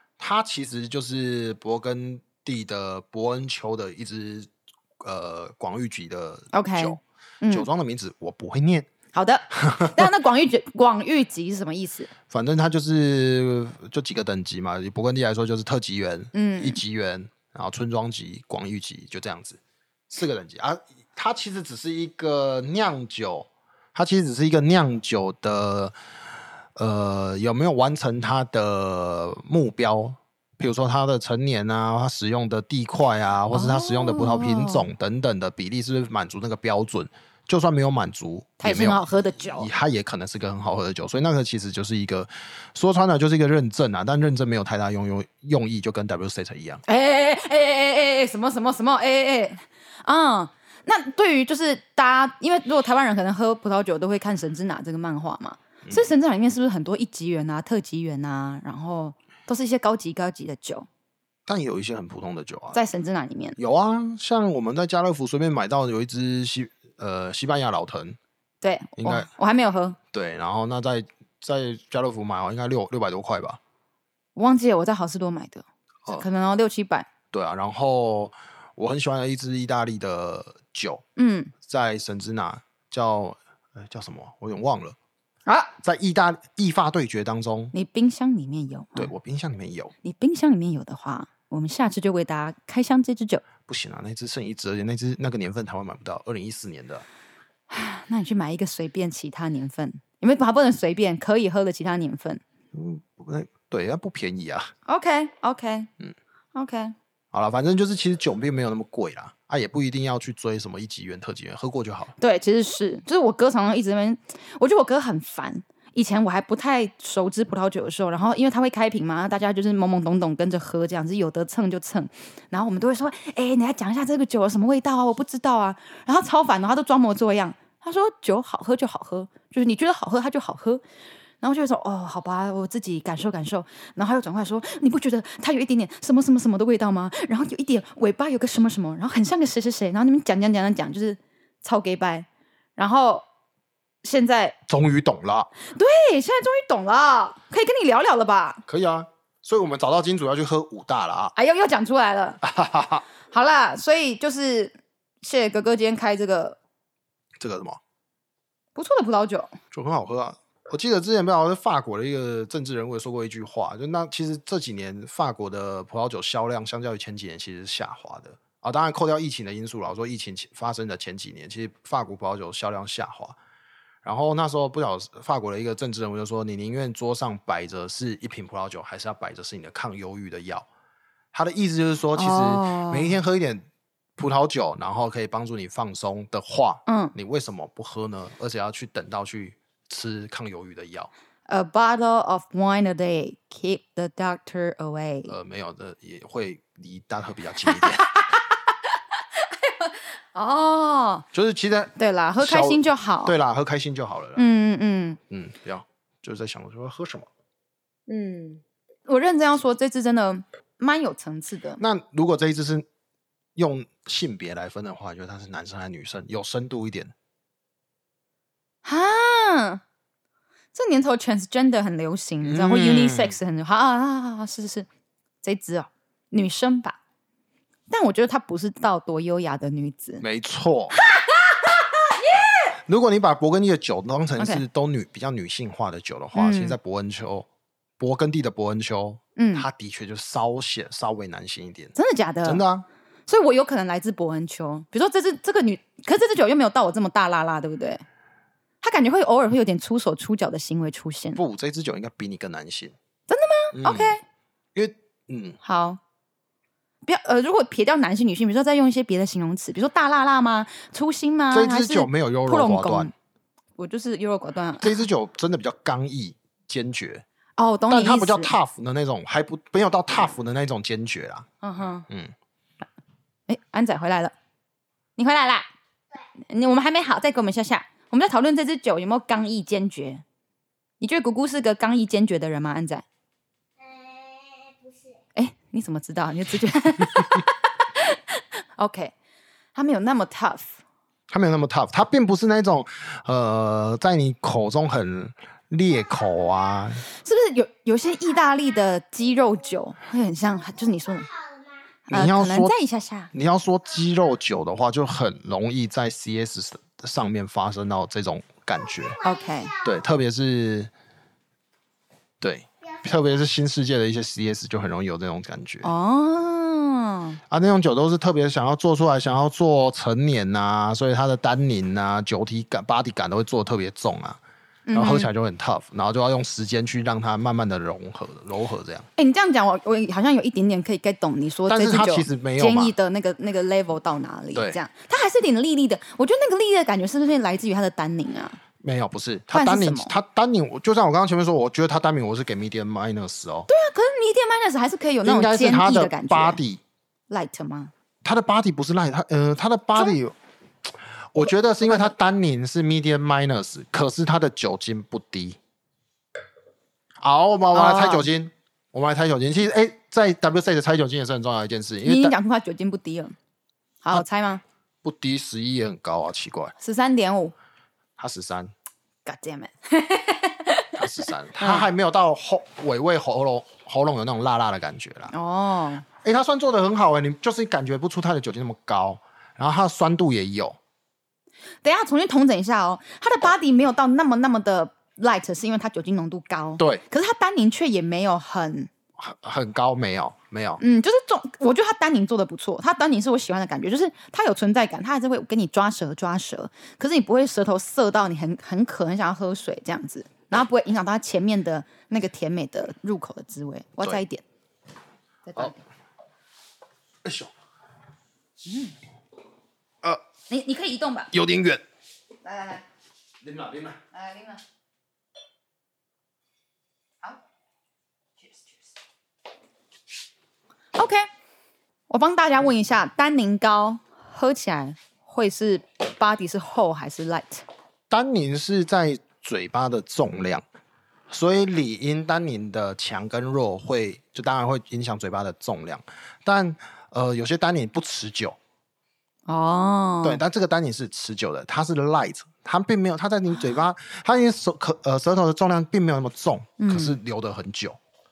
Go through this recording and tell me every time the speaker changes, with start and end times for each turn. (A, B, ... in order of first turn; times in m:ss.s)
0:00.2-0:08.9 A
0:06.5-0:07.7 B
0:09.1-0:12.1 B
0:09.6-0:10.1 A
0:12.3-0:26.0 A
0:16.3-0:16.8 B
0:26.8-0:46.8 A
0:33.5-0:34.9 B
0:38.6-0:39.7 B
0:46.9-1:00.9 B
1:01.5-1:02.8 A
1:02.7-1:03.6 B
1:03.6-1:08.2 A
1:08.6-1:10.0 B
1:09.0-1:09.3 A
1:10.1-1:13.6 A
1:14.4-1:17.1 B
1:17.3-1:21.0 A
1:21.2-1:21.5 B
1:21.6-1:25.0 A
1:25.5-1:25.7 B
1:25.8-1:27.7 A
1:27.7-1:29.1 B
1:29.0-1:29.9 A
1:30.0-1:33.4 B
1:33.7-1:37.0 A
1:37.7-1:42.4 B
1:42.7-1:44.7 A
1:44.9-1:45.9 B
1:46.5-1:47.0 B
1:47.3-1:52.1 A
1:52.2-2:10.8 B
2:11.4-2:23.2 B
2:24.0-2:24.6 B
2:24.7-2:25.5 A
2:25.7-2:28.6 B
2:28.7-2:31.3 A
2:31.4-2:32.4 B
2:32.4-2:33.0 A
2:33.3-2:36.6 B
2:37.4-2:37.8 A
2:38.8-2:39.6 B
2:39.7-2:53.4 A
2:54.0-3:00.7 A
3:01.3-3:03.7 A
3:02.2-3:03.2 B
3:04.2-3:11.1 A
3:06.9-3:07.1 B
3:11.5-3:15.3 B
3:15.3-3:18.1 A
3:17.7-3:18.7 B
3:19.4-3:21.2 B
3:21.3-3:24.4 A
3:22.0-3:23.3 B
3:24.4-3:25.2 B
3:25.3-3:27.3 A
3:28.1-3:31.8 B
3:31.8-3:32.9 A
3:33.6-3:37.1 A
3:38.8-3:39.8 B
3:40.7-3:44.9 B
3:42.4-3:43.4 A
3:45.4-3:47.0 B
3:47.9-3:50.2 B
3:50.2-3:51.0 A
3:50.9-3:52.8 B
3:52.9-3:57.5 A
3:54.4-3:54.6 B
3:56.4-3:56.8 B
3:58.0-4:01.9 A
3:59.4-3:59.7 B
4:02.0-4:02.6 B
4:02.4-4:02.9 A
4:03.3-4:08.0 B
4:08.8-4:11.4 B
4:11.4-4:13.0 A
4:13.3-4:14.2 B
4:13.7-4:14.2 A
4:14.8-4:15.6 A
4:15.6-4:16.0 B
4:17.0-4:23.1 B
4:21.5-4:23.1 A
4:23.8-4:25.0 B
4:24.8-4:27.2 A
4:27.6-4:28.5 B
4:27.9-4:31.5 A
4:31.6-4:32.0 B
4:32.1-4:32.3 A
4:33.5-4:34.3 B
4:35.2-4:35.7 B
4:36.5-4:40.2 B
4:41.0-4:43.0 B
4:43.8-4:45.2 C
4:45.4-4:49.1 B
4:49.8-4:50.8 B
4:51.3-4:57.0 A
4:57.2-5:01.3 B
5:00.7-5:01.8 C
5:02.1-5:02.7 A
5:02.1-5:03.3 B
5:03.3-5:09.2 A
5:09.0-5:09.8 C
5:09.2-5:09.8 B
5:09.8-5:10.9 A
5:12.4-5:15.9 A
5:15.8-5:17.4 B
5:17.5-5:24.4 A
5:24.9-5:25.3 B
5:24.9-5:29.1 A
5:29.2-5:38.6 B
5:31.7-5:33.0 A
5:38.8-5:43.7 A
5:39.5-5:40.1 B
5:43.7-5:46.6 B
5:45.2-5:46.8 A
5:47.3-5:47.9 B
5:48.2-5:50.4 A
5:51.3-5:55.6 A
5:51.9-5:52.1 B
5:57.2-6:02.3 A
5:57.7-5:58.3 B
6:02.0-6:03.4 B
6:04.0-6:04.6 B
6:05.0-6:06.7 A
6:06.8-6:07.5 B
6:08.2-6:08.7 A
6:09.2-6:11.9 B
6:11.0-6:15.3 A
6:15.3-6:16.0 B
6:16.2-6:20.8 A
6:21.8-6:28.9 B
6:26.8-6:27.0 A
6:29.2-6:30.8 A
6:30.8-6:44.4 B
6:45.5-6:45.8 B
6:47.2-6:47.5 A
6:48.6-6:49.0 B
6:50.5-6:51.3 B
6:51.3-6:51.8 A
6:52.4-6:52.8 B
6:53.4-6:54.0 A
6:54.1-6:54.6 B
7:01.0-7:01.2 B
7:02.1-7:07.6 B
7:08.1-7:10.6 A
7:11.3-7:18.6 A
7:19.5-7:20.4 B
7:20.2-7:28.0 A
7:26.8-7:27.2 B